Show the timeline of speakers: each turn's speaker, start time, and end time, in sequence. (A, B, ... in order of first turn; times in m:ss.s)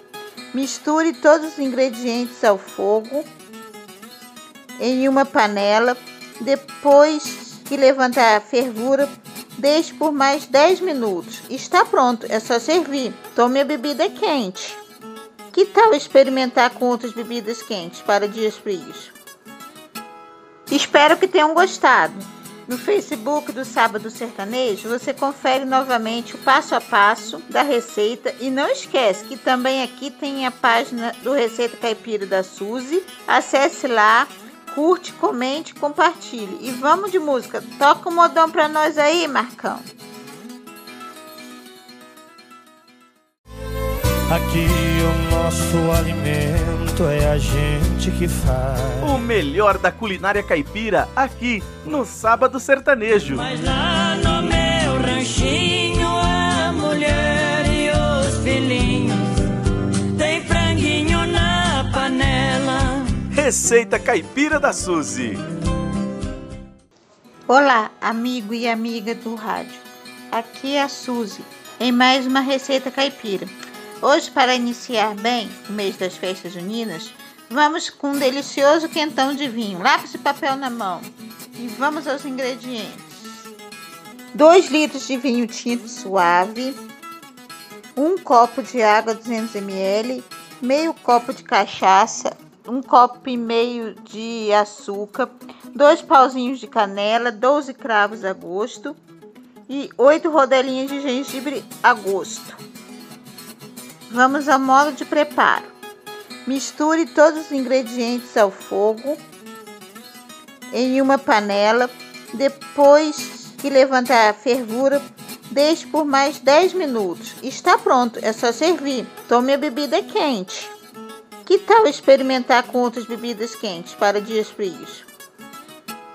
0:00.5-0:03.3 A
0:04.8-0:14.8 A
0:15.5-0:19.1 A
0:20.7-0:39.9 A
0:44.3-0:49.1 B
0:49.0-0:53.4 C
0:53.4-0:59.4 D
1:00.1-1:03.1 D
1:03.3-1:05.4 C
1:07.5-1:23.0 A
1:24.3-1:26.8 A
1:28.0-1:39.0 A
1:39.7-1:42.6 A
1:44.1-1:45.7 A
1:46.4-1:49.2 A
1:50.7-2:00.7 A
2:01.4-2:05.1 A